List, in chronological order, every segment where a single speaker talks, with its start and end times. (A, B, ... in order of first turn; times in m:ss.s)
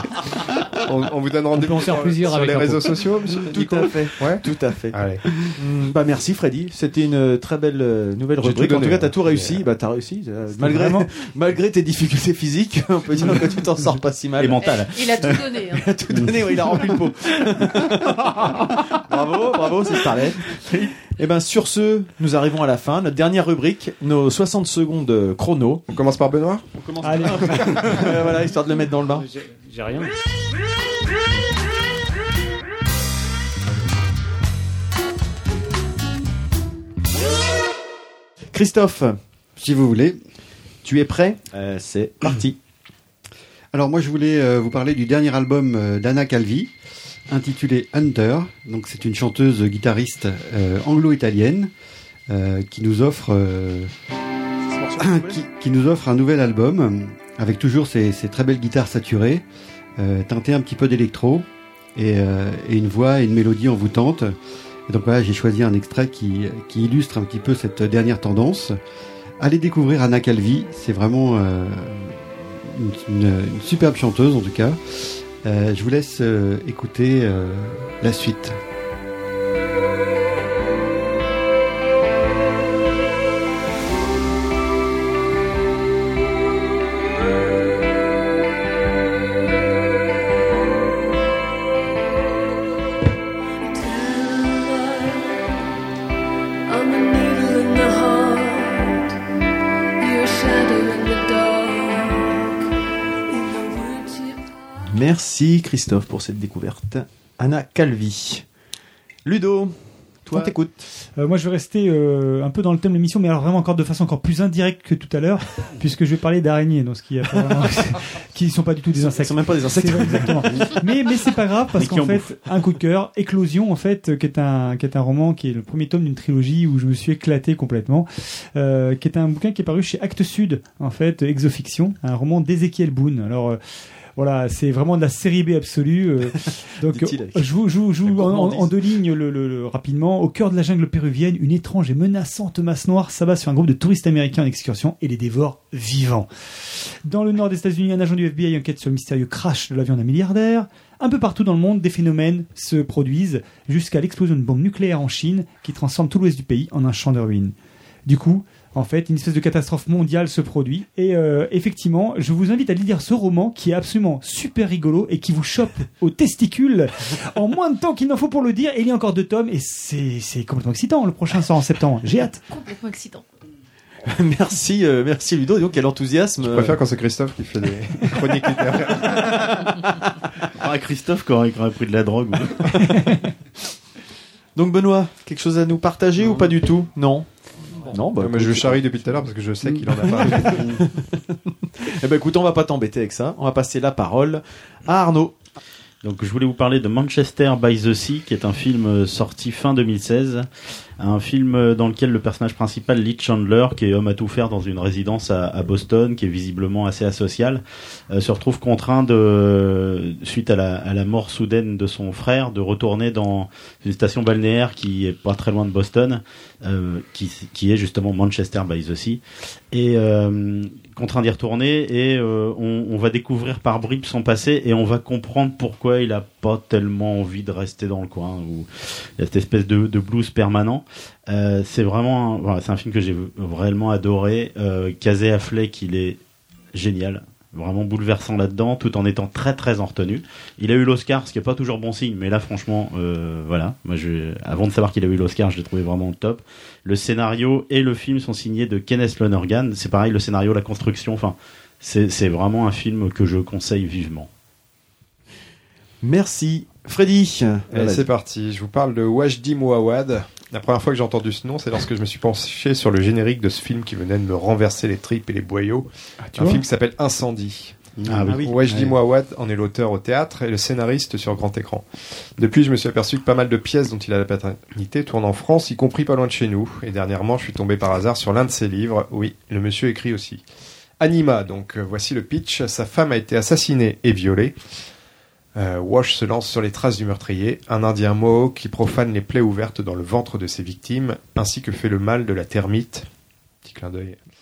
0:00.8-0:05.2 A
0:01.5-0:03.1 B
0:03.3-0:25.8 C
0:08.4-0:09.6 A
0:10.6-0:11.1 D
0:14.4-0:15.4 E
0:14.6-0:15.8 F
0:25.9-0:26.6 A
0:26.8-0:29.2 C
0:27.0-0:28.2 D
0:29.2-0:30.1 B
0:38.5-0:39.2 C
0:39.6-0:40.2 G
0:40.8-0:42.6 C
0:43.7-0:46.7 G
0:47.3-0:51.7 G
0:52.3-0:53.9 G
0:54.7-0:55.4 C
0:55.0-0:59.4 G
1:00.0-1:04.3 G
1:04.9-1:08.8 G
1:09.4-1:18.6 G
1:33.6-1:35.4 H
1:36.7-1:39.1 H
1:40.0-1:42.6 H
1:43.3-1:44.6 H
1:44.9-1:48.4 C
1:49.2-1:49.7 C
1:50.2-1:50.9 C
1:51.2-2:13.6 D
1:59.2-2:00.6 C
2:01.8-2:02.3 E
2:14.2-2:37.5 D
2:16.8-2:17.5 C
2:18.0-2:18.8 C
2:38.0-2:52.4 D
2:52.5-2:53.2 F
2:54.0-2:56.8 C
2:56.4-2:59.7 A
3:00.5-3:02.8 E
3:02.9-3:03.2 D
3:04.5-3:07.2 C
3:07.8-3:15.3 C
3:08.1-3:10.8 A
3:16.0-3:20.5 E
3:21.0-3:39.2 E
3:39.7-3:48.7 E
3:49.2-3:56.2 E
3:56.7-4:14.3 E
4:16.0-4:18.0 C
4:17.7-4:31.8 A
4:26.3-4:26.6 C
4:28.0-4:28.9 G
4:28.1-4:28.4 E
4:28.3-4:28.5 D
4:32.4-4:40.4 A
4:41.0-4:44.6 A
4:45.5-4:53.1 A
4:53.6-4:54.2 A